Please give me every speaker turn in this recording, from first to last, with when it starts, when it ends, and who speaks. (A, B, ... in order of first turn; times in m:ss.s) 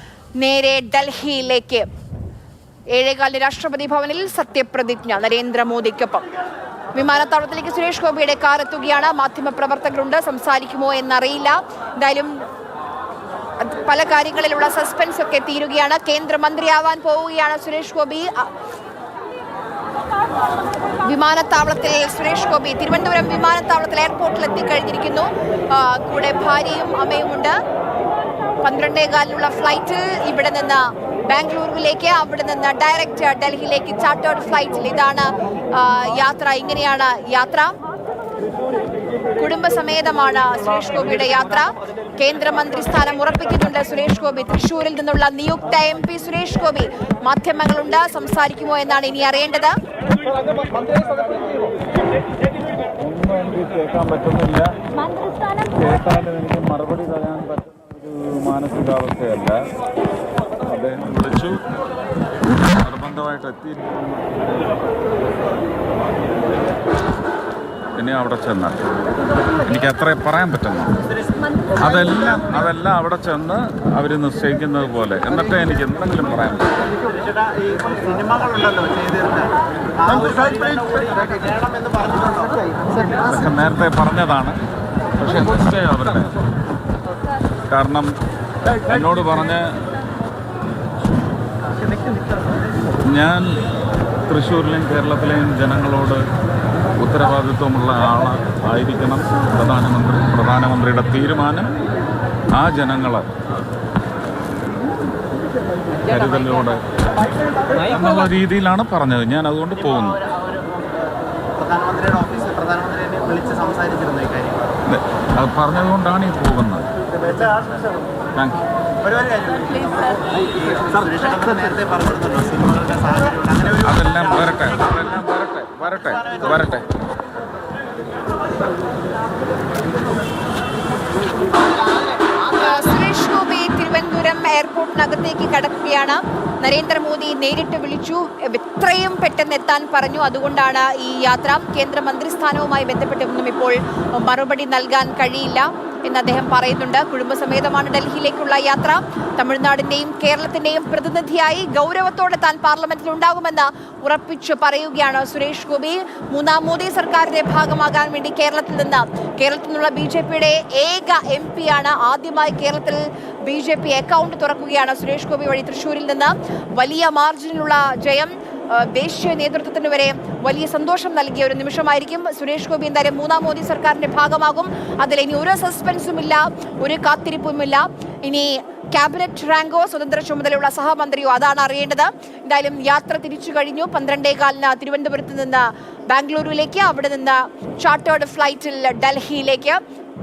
0:00.4-0:01.9 A
0:02.9-0:06.2 A
0:06.9-0:12.4 A
0:13.6-0:18.5 A
0:21.0-0:27.6 A
0:28.6-0:37.7 A
0:39.4-0:49.7 A
0:53.0-0:54.7 B
0:55.4-0:59.7 B
1:00.6-1:01.6 B
1:02.7-1:04.4 B
1:08.0-1:08.8 B
1:09.6-1:11.0 B
1:11.8-1:16.7 B
1:17.6-1:19.5 C
1:20.0-1:20.6 B
1:20.4-1:22.6 C
1:23.2-1:24.6 B
1:25.2-1:26.3 B
1:27.7-1:28.1 B
1:28.8-1:29.7 B
1:33.1-1:33.6 B
1:34.3-1:36.2 B
1:37.0-1:41.7 B
1:42.5-1:43.2 B
1:46.0-1:46.8 B
1:47.8-1:50.2 B
1:51.6-1:54.6 C
1:54.8-1:56.9 B
1:58.4-1:58.6 B
1:59.2-2:00.2 C
2:00.8-2:03.6 C
2:03.6-2:06.8 B
2:12.4-3:09.8 A